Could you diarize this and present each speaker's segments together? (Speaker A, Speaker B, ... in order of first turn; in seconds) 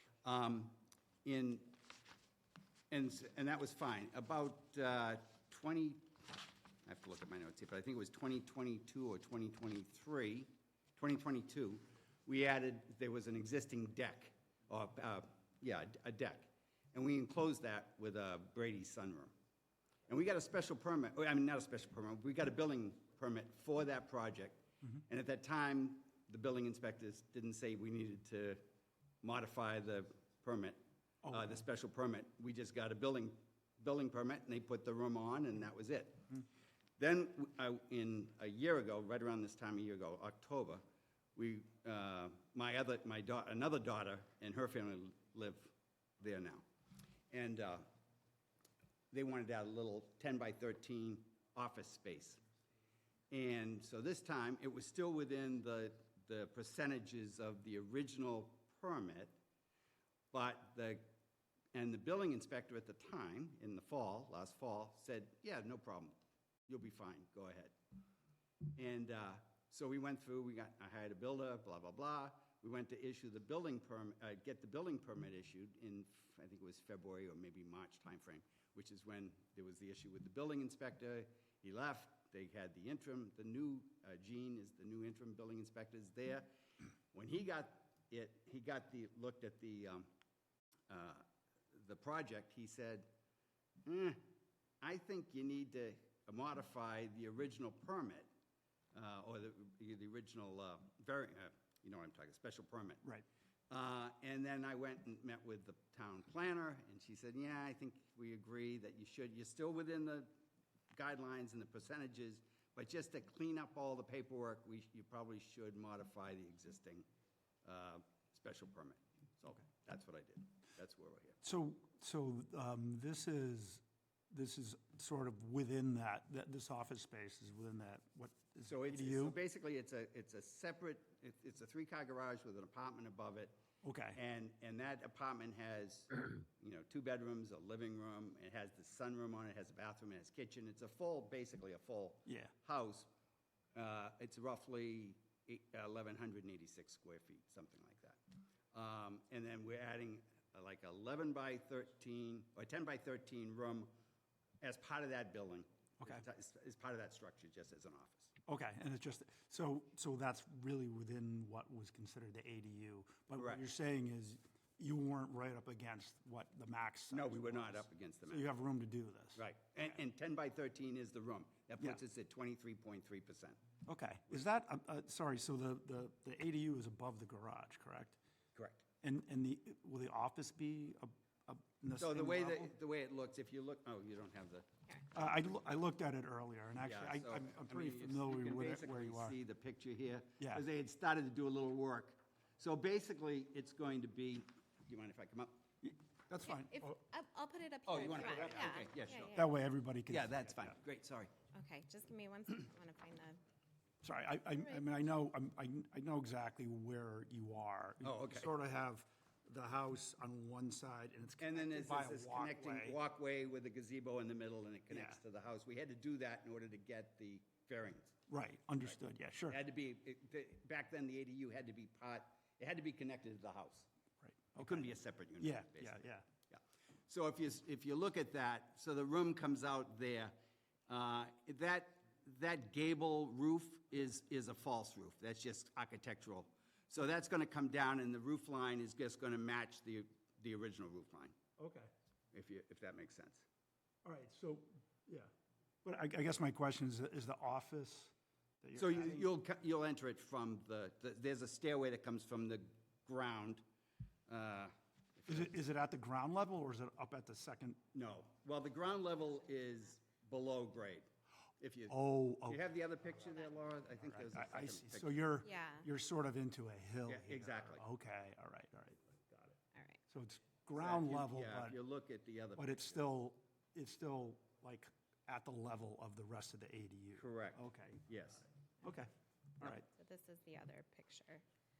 Speaker A: 0.2-1.8, 2.9-19.3, 20.1-28.6, 29.2-36.4, 37.0-40.8, 41.4-46.7, 47.3-47.9, 49.1-52.4, 53.3-59.3, 60.3-61.0, 61.7-66.2, 66.7-67.7, 68.8-86.5, 87.1-90.1, 90.9-93.1, 93.8-94.2, 94.8-98.3, 98.9-103.0, 103.7-110.3, 110.9-117.1, 117.7-121.4, 128.7-133.5, 134.2-143.1, 143.8-148.2, 148.7-153.9, 154.6-158.3, 163.4-163.7, 167.1-168.5, 169.4-173.6, 178.6-178.8, 182.0-184.7, 186.8-195.6, 197.9-199.4, 200.1-201.3, 208.0-208.5, 211.4-218.2, 219.5-223.9, 224.6-230.3, 230.9-241.4, 242.3-243.4, 248.8-253.6, 254.3-255.5, 257.9-261.1, 261.6-265.4, 267.1-267.9, 270.8-273.1, 277.2-278.4
Speaker B: 121.4-129.4, 133.8-134.2, 142.3-142.5, 158.5-169.9, 173.9-178.2, 179.0-182.7, 185.1-189.4, 195.8-197.0, 199.3-200.8, 204.0-213.0, 214.9-215.2, 218.3-219.6, 224.2-226.2, 241.6-241.9, 244.1-245.3, 245.8-249.3, 255.3-257.8, 261.9-262.6, 264.0-269.6, 270.1-271.8, 272.6-278.1, 278.8-279.1, 279.6-279.9
Speaker C: 196.5-199.5, 201.5-203.4, 265.4-265.9, 279.7-281.4